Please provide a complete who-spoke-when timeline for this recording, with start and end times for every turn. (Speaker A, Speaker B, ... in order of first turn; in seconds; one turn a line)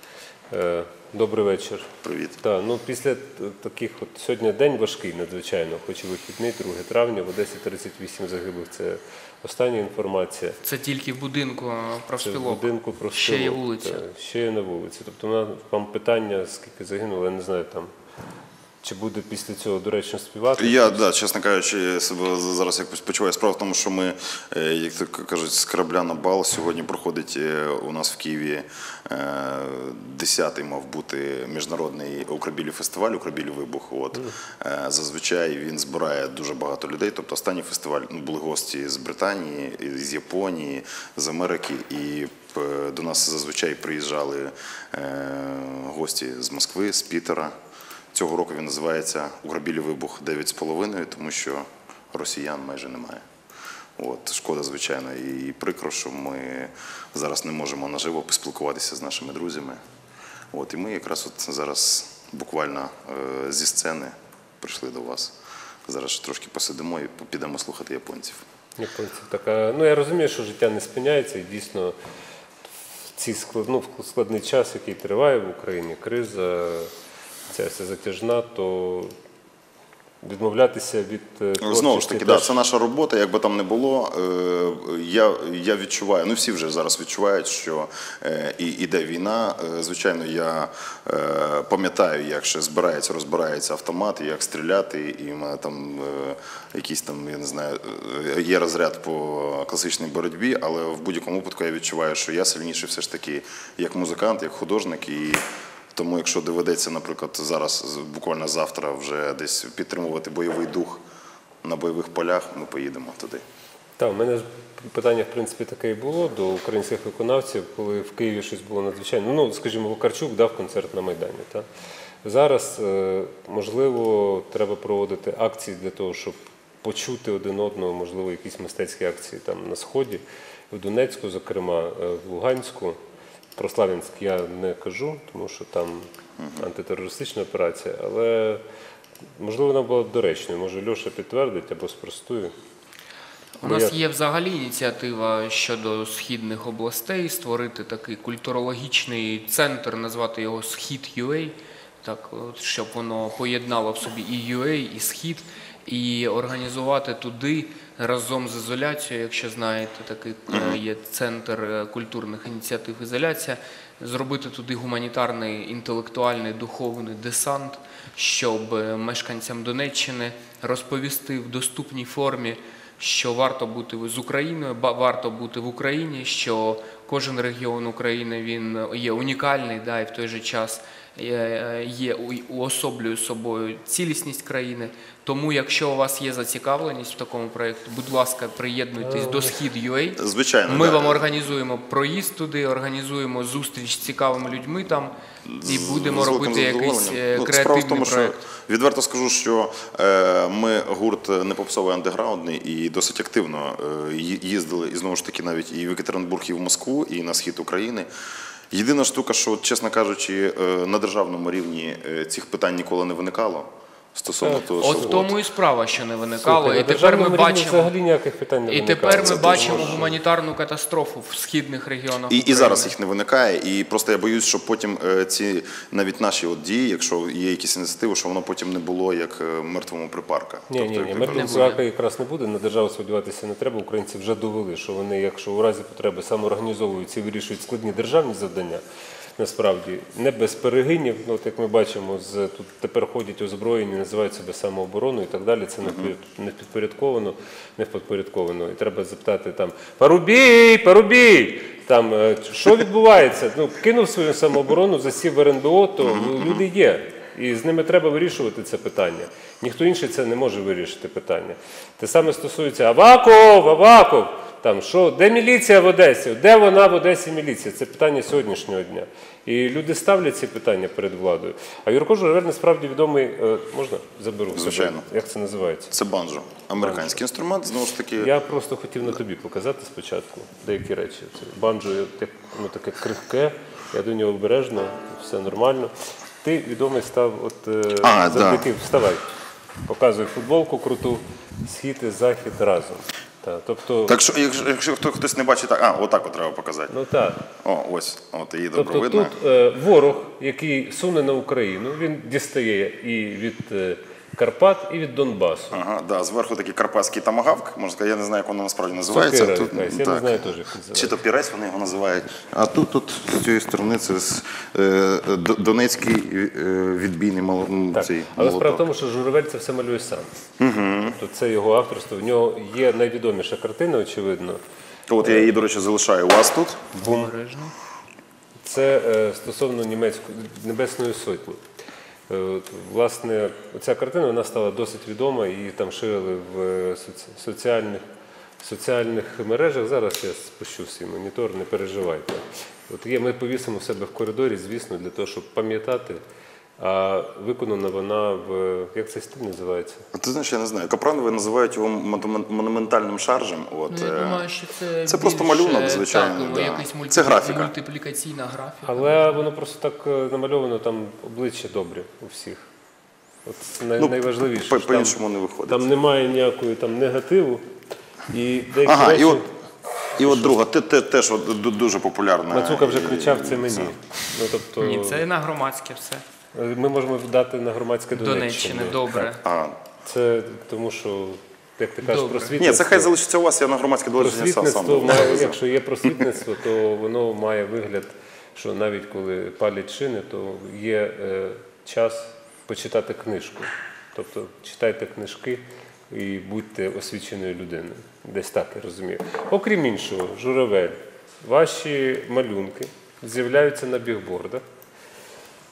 Speaker A: 0.5-1.9
Speaker B: 2.0-2.4
Speaker A: 2.4-10.6
Speaker C: 10.6-14.0
Speaker A: 12.2-17.9
Speaker A: 18.8-21.1
Speaker B: 20.6-47.5
Speaker B: 48.1-53.2
Speaker B: 54.0-59.8
Speaker B: 60.5-65.3
Speaker B: 65.9-68.5
Speaker A: 68.8-72.0
Speaker A: 73.1-76.9
Speaker A: 77.5-79.1
Speaker A: 80.2-82.6
Speaker B: 81.6-105.4
Speaker B: 105.9-111.0
Speaker B: 111.6-113.4
Speaker A: 114.0-121.7
Speaker A: 122.2-133.0
Speaker A: 133.6-136.1
Speaker B: 136.4-136.7
Speaker A: 136.6-138.6
Speaker A: 139.4-142.5
Speaker C: 143.6-198.4
Speaker A: 143.6-144.0
Speaker B: 160.5-160.8
Speaker A: 189.0-189.6
Speaker B: 190.2-191.3
Speaker B: 195.4-208.1
Speaker B: 208.7-215.4
Speaker A: 214.4-215.2
Speaker C: 214.8-217.9
Speaker A: 216.4-220.1
Speaker C: 218.7-222.9
Speaker B: 219.1-220.1
Speaker B: 222.3-231.6
Speaker A: 230.7-238.8
Speaker C: 231.2-231.8
Speaker A: 239.4-275.9
Speaker B: 245.8-246.1
Speaker B: 256.0-256.6
Speaker B: 274.5-275.1
Speaker B: 275.9-278.3
Speaker A: 276.8-277.2
Speaker A: 278.2-289.3
Speaker B: 288.0-288.7
Speaker A: 289.9-294.2
Speaker B: 294.1-296.9
Speaker A: 296.9-297.5
Speaker B: 297.6-299.4
Speaker A: 298.8-305.8
Speaker B: 305.7-318.9
Speaker A: 309.1-311.1
Speaker A: 317.9-320.3
Speaker B: 320.6-321.2
Speaker A: 321.1-324.6
Speaker B: 325.1-326.8
Speaker A: 326.9-327.3
Speaker C: 327.0-327.7
Speaker A: 328.6-331.6
Speaker A: 332.3-338.0
Speaker A: 338.6-346.2
Speaker A: 346.8-350.1
Speaker B: 350.1-354.5
Speaker C: 353.9-359.4
Speaker B: 355.1-357.7
Speaker A: 358.9-362.6
Speaker A: 363.4-365.2
Speaker B: 364.0-365.9
Speaker A: 365.7-367.6
Speaker A: 368.3-369.5
Speaker B: 368.9-369.4
Speaker A: 370.2-370.6
Speaker B: 370.2-374.0
Speaker A: 372.5-375.2
Speaker C: 374.8-376.2
Speaker A: 376.6-379.3
Speaker C: 378.1-379.4
Speaker B: 379.4-379.8
Speaker A: 380.0-383.1
Speaker C: 382.0-382.6
Speaker B: 382.6-386.3
Speaker A: 384.2-404.6